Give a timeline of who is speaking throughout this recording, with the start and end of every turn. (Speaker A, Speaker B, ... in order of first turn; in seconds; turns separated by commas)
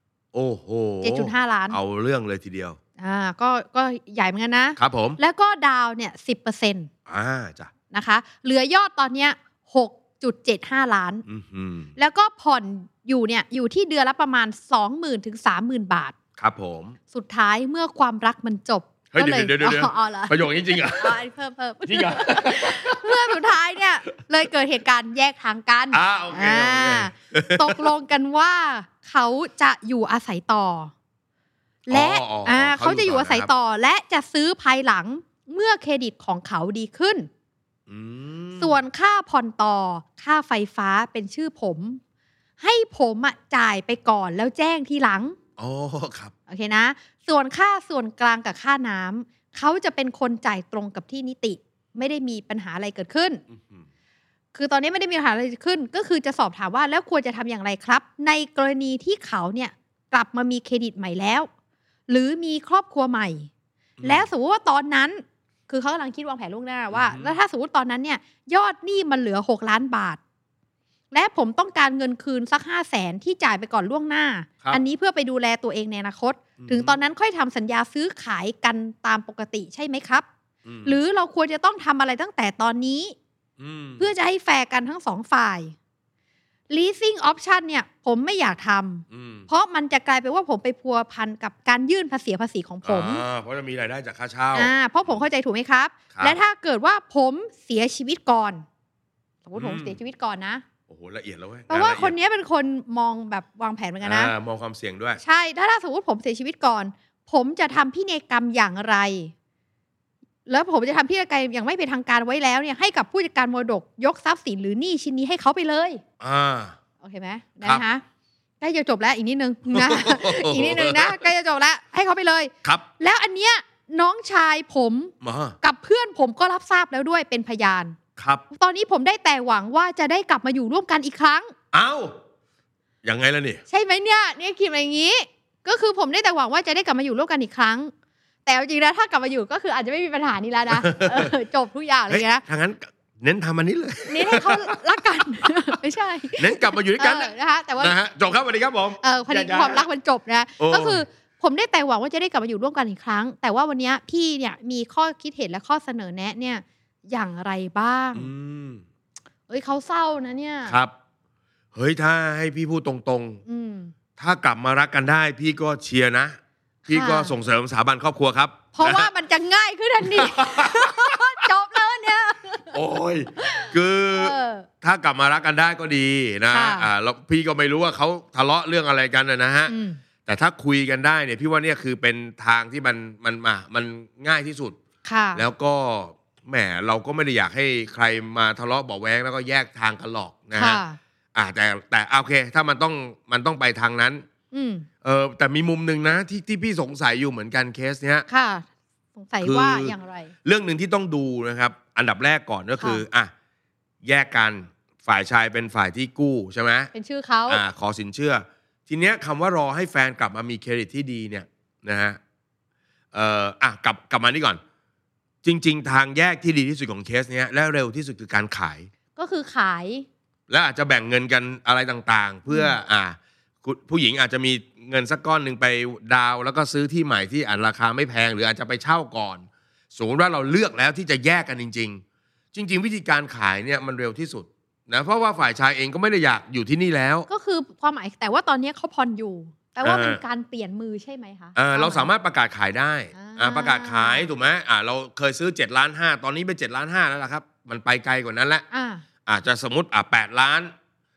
Speaker A: 0.3-2.8, Speaker B: 1.0-1.8, Speaker B: 3.0-6.9, Speaker A: 4.8-5.2, Speaker A: 7.1-7.7, Speaker B: 7.9-11.2, Speaker A: 11.3-11.9, Speaker B: 12.0-16.1, Speaker A: 16.4-17.0, Speaker B: 17.1-30.9, Speaker A: 19.1-21.2, Speaker A: 21.9-23.4, Speaker A: 25.9-27.9, Speaker B: 31.9-37.3, Speaker A: 31.9-33.5, Speaker A: 37.9-38.7, Speaker B: 38.6-42.0, Speaker B: 42.6-45.4, Speaker A: 45.6-46.3, Speaker B: 46.5-53.4, Speaker A: 53.5-53.9, Speaker B: 54.5-61.5, Speaker B: 62.1-63.5, Speaker A: 64.0-64.3, Speaker B: 64.0-70.2, Speaker A: 66.9-67.3, Speaker B: 71.1-80.2, Speaker A: 76.6-77.0, Speaker A: 80.6-81.0, Speaker B: 80.8-83.2, Speaker A: 83.6-84.1, Speaker B: 84.0-85.8, Speaker B: 86.7-93.2, Speaker A: 89.1-89.5, Speaker A: 92.8-94.7, Speaker B: 94.5-98.6, Speaker A: 96.1-96.4, Speaker B: 99.4-100.6, Speaker A: 99.5-100.0, Speaker A: 100.9-102.1, Speaker B: 101.7-104.3, Speaker A: 104.0-105.2, Speaker B: 105.2-109.3, Speaker B: 110.5-116.0, Speaker A: 116.2-116.8, Speaker B: 117.0-118.0, Speaker B: 118.6-128.0, Speaker A: 119.7-121.3, Speaker A: 125.2-125.6, Speaker A: 128.2-128.4, Speaker B: 128.5-131.5, Speaker A: 131.7-132.1, Speaker A: 133.0-133.6, Speaker B: 133.7-137.9, Speaker B: 138.4-142.4, Speaker A: 140.7-141.3, Speaker A: 142.1-144.8, Speaker B: 144.1-148.0, Speaker A: 146.4-149.8, Speaker B: 149.0-158.3, Speaker A: 150.6-151.0, Speaker A: 158.1-158.8, Speaker B: 159.5-160.8, Speaker A: 160.7-160.9, Speaker A: 161.7-163.4, Speaker B: 163.5-163.9, Speaker A: 164.2-169.1, Speaker B: 166.9-167.3, Speaker B: 168.7-172.8, Speaker A: 170.0-171.2, Speaker A: 172.7-179.7, Speaker B: 173.4-174.7, Speaker B: 176.5-176.9, Speaker B: 179.7-180.0, Speaker A: 180.2-184.8, Speaker B: 185.0-185.4, Speaker A: 185.3-190.8, Speaker B: 190.5-191.0, Speaker A: 191.3-194.2, Speaker B: 194.5-194.9, Speaker A: 195.0-198.3, Speaker B: 198.3-200.3, Speaker A: 199.4-199.9, Speaker A: 200.4-203.3, Speaker A: 204.0-206.9, Speaker B: 206.9-207.6, Speaker A: 207.5-212.2, Speaker A: 213.1-214.6, Speaker A: 215.4-218.9, Speaker B: 219.2-220.1, Speaker A: 220.5-232.0, Speaker B: 222.5-222.8, Speaker A: 232.5-237.3, Speaker B: 237.3-242.1, Speaker A: 239.8-240.2, Speaker A: 241.6-248.7, Speaker B: 243.1-244.3, Speaker B: 248.7-249.0, Speaker A: 249.2-250.7